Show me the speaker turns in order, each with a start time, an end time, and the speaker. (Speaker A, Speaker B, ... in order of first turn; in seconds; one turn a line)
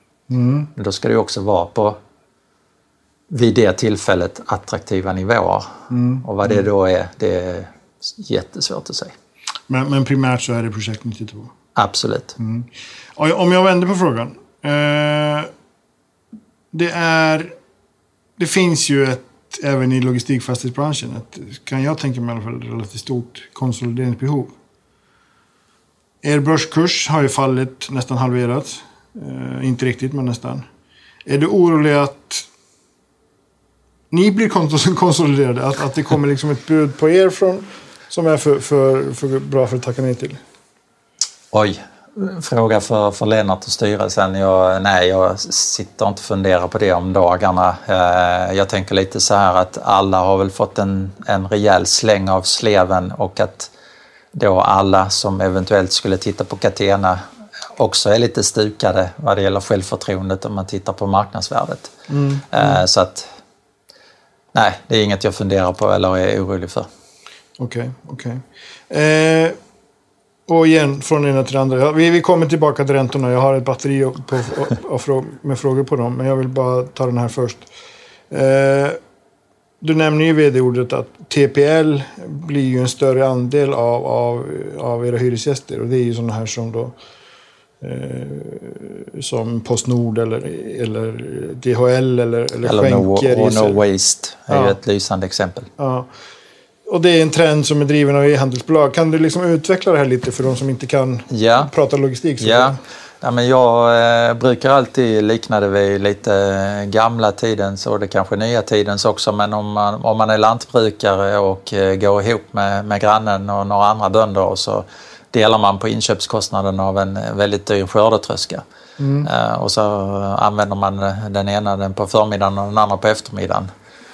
Speaker A: 0.3-0.7
Speaker B: 0.8-2.0
Speaker B: 3.3-9.1
Speaker A: 5.9-6.6
Speaker A: 9.7-11.5
Speaker B: 11.8-12.3
Speaker A: 12.4-15.5
Speaker A: 16.7-17.5
Speaker A: 18.4-24.5
Speaker A: 26.2-30.6
Speaker A: 31.2-32.5
Speaker A: 34.1-40.4
Speaker B: 41.5-53.7
Speaker B: 54.3-57.2
Speaker B: 57.7-61.9
Speaker A: 62.1-62.8
Speaker B: 62.5-63.3
Speaker B: 64.5-66.9
Speaker A: 67.6-69.6
Speaker A: 70.5-77.7
Speaker A: 78.3-79.0
Speaker A: 79.8-86.9
Speaker A: 87.8-93.8
Speaker B: 92.6-95.7
Speaker A: 94.5-94.8
Speaker A: 95.8-96.1
Speaker A: 96.8-102.8
Speaker B: 101.3-101.7
Speaker B: 102.4-118.6
Speaker A: 119.0-119.3
Speaker B: 119.2-123.7